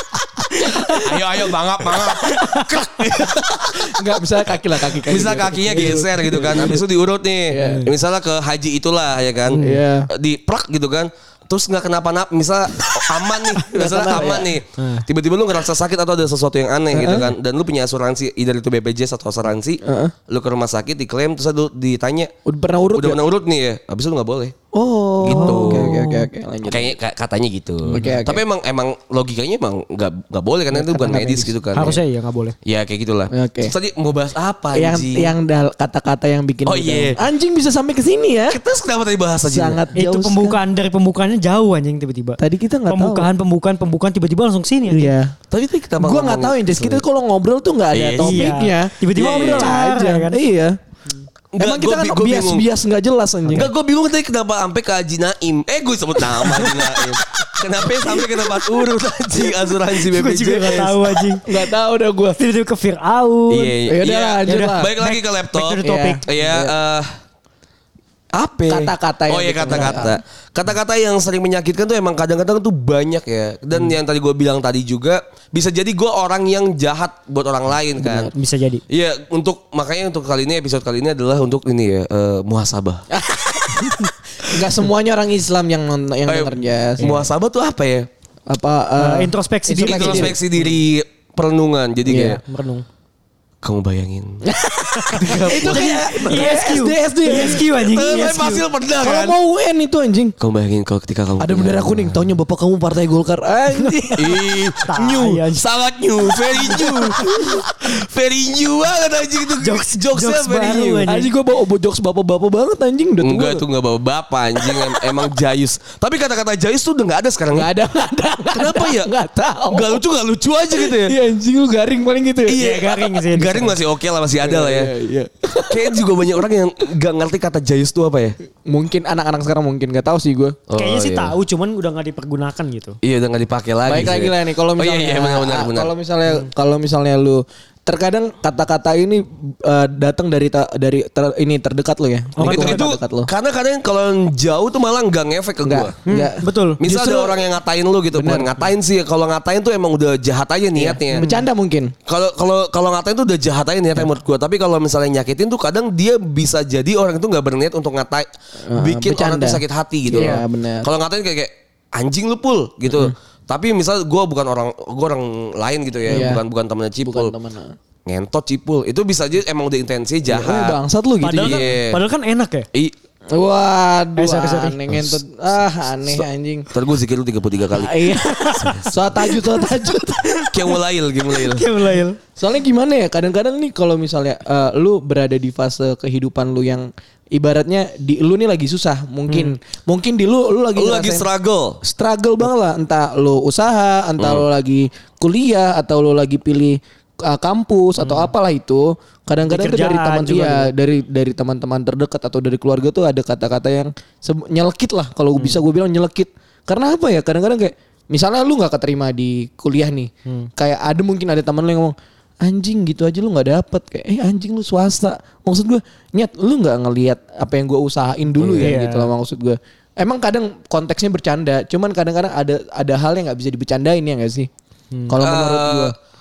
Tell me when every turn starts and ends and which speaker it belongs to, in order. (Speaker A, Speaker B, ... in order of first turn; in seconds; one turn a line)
Speaker A: 0.4-1.1
Speaker B: 0.8-4.0
Speaker C: 2.4-2.8
Speaker A: 3.5-6.8
Speaker B: 4.8-22.3
Speaker A: 7.5-7.9
Speaker C: 7.6-7.9
Speaker C: 9.5-9.8
Speaker A: 9.6-10.1
Speaker C: 13.6-15.1
Speaker A: 13.7-14.5
Speaker A: 16.9-17.3
Speaker A: 19.8-20.1
Speaker A: 22.4-23.2
Speaker B: 22.9-24.5
Speaker A: 24.7-26.9
Speaker B: 25.2-26.0
Speaker C: 25.2-26.2
Speaker B: 26.7-32.0
Speaker A: 27.9-28.4
Speaker A: 30.7-31.6
Speaker C: 31.7-32.5
Speaker B: 32.6-35.3
Speaker A: 33.3-33.7
Speaker A: 34.7-38.6
Speaker B: 36.6-37.2
Speaker B: 38.5-39.8
Speaker A: 39.5-40.6
Speaker C: 39.9-45.1
Speaker A: 42.4-43.3
Speaker A: 44.9-45.3
Speaker B: 45.5-47.0
Speaker A: 46.0-50.8
Speaker B: 47.9-48.6
Speaker C: 48.2-50.4
Speaker B: 49.1-49.8
Speaker B: 51.5-52.6
Speaker A: 51.6-53.7
Speaker B: 53.5-61.3
Speaker C: 59.9-61.6
Speaker A: 61.4-62.4
Speaker C: 62.4-63.8
Speaker B: 63.5-67.1
Speaker A: 63.9-64.9
Speaker C: 64.5-66.3
Speaker A: 65.8-66.7
Speaker B: 68.3-78.3
Speaker A: 68.7-70.2
Speaker C: 69.7-70.1
Speaker C: 78.1-78.8
Speaker B: 78.9-83.0
Speaker A: 83.1-87.1
Speaker B: 86.3-88.1
Speaker C: 87.0-87.3
Speaker A: 88.5-90.4
Speaker C: 89.0-90.6
Speaker B: 89.8-92.4
Speaker A: 92.1-92.4
Speaker C: 92.1-92.8
Speaker B: 93.6-94.4
Speaker A: 94.4-97.6
Speaker C: 94.9-98.6
Speaker B: 95.1-96.5
Speaker B: 97.3-99.4
Speaker A: 99.0-100.3
Speaker B: 100.4-102.1
Speaker A: 101.4-104.3
Speaker B: 104.2-111.1
Speaker C: 104.9-105.6
Speaker C: 106.8-107.3
Speaker C: 109.6-111.3
Speaker A: 111.1-113.6
Speaker B: 113.2-117.7
Speaker A: 117.5-120.0
Speaker B: 118.5-119.1
Speaker B: 119.7-121.1
Speaker A: 120.7-122.6
Speaker B: 122.5-124.9
Speaker C: 122.6-123.8
Speaker A: 124.4-125.9
Speaker B: 125.7-128.3
Speaker A: 128.7-130.6
Speaker B: 130.7-131.3
Speaker C: 130.7-133.0
Speaker B: 133.0-135.9
Speaker A: 133.8-143.3
Speaker C: 142.4-142.9
Speaker B: 142.4-145.9
Speaker A: 145.6-147.4
Speaker C: 146.1-146.8
Speaker B: 146.8-151.2
Speaker A: 148.1-148.6
Speaker A: 150.8-151.9
Speaker C: 151.1-151.4
Speaker B: 152.1-167.3
Speaker A: 158.7-160.9
Speaker C: 160.2-160.4
Speaker A: 166.1-166.4
Speaker A: 167.0-167.7
Speaker B: 168.1-170.8
Speaker A: 170.3-171.6
Speaker C: 171.2-172.7
Speaker B: 171.3-172.0
Speaker A: 173.3-176.7
Speaker C: 174.2-174.9
Speaker B: 176.0-179.1
Speaker A: 177.7-180.3
Speaker C: 178.2-180.8
Speaker B: 180.5-181.7
Speaker C: 181.3-182.2
Speaker A: 182.4-191.3
Speaker C: 189.3-189.6
Speaker B: 190.8-191.8
Speaker A: 191.8-224.5
Speaker B: 194.2-194.5
Speaker C: 198.0-198.3
Speaker C: 199.5-200.7
Speaker C: 205.4-205.6
Speaker B: 218.4-218.7
Speaker C: 218.6-219.1
Speaker A: 225.1-225.9
Speaker B: 225.2-225.9